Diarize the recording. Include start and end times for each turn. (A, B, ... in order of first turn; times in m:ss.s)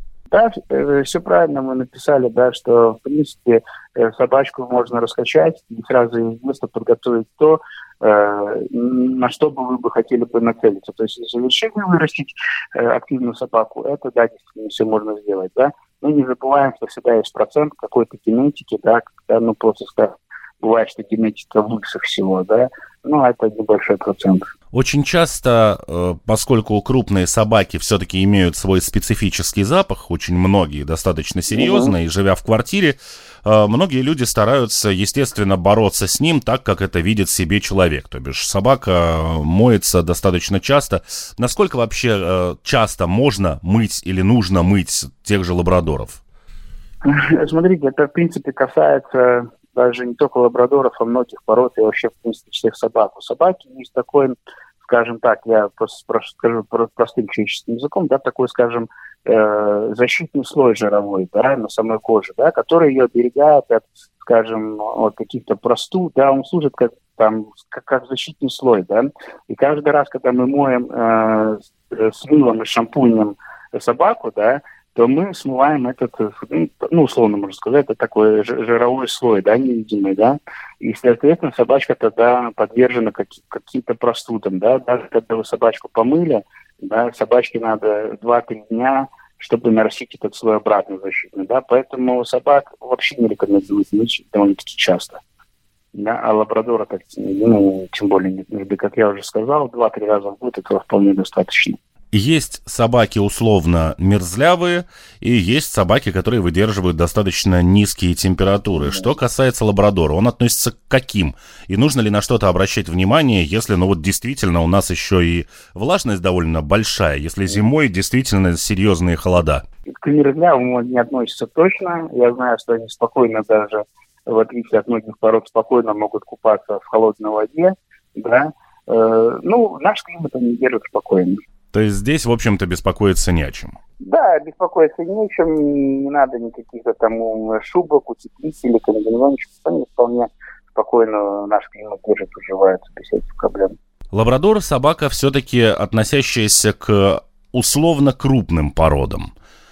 0:00.3-0:24.5 A
0:24.7-0:46.2 B
0:31.5-0:31.9 A
0:47.0-1:35.2 A
1:35.9-1:41.8 A
1:42.1-1:59.6 B
2:00.0-2:11.4 A
2:11.7-2:13.8 B
2:14.0-2:23.8 A
2:24.1-2:29.3 B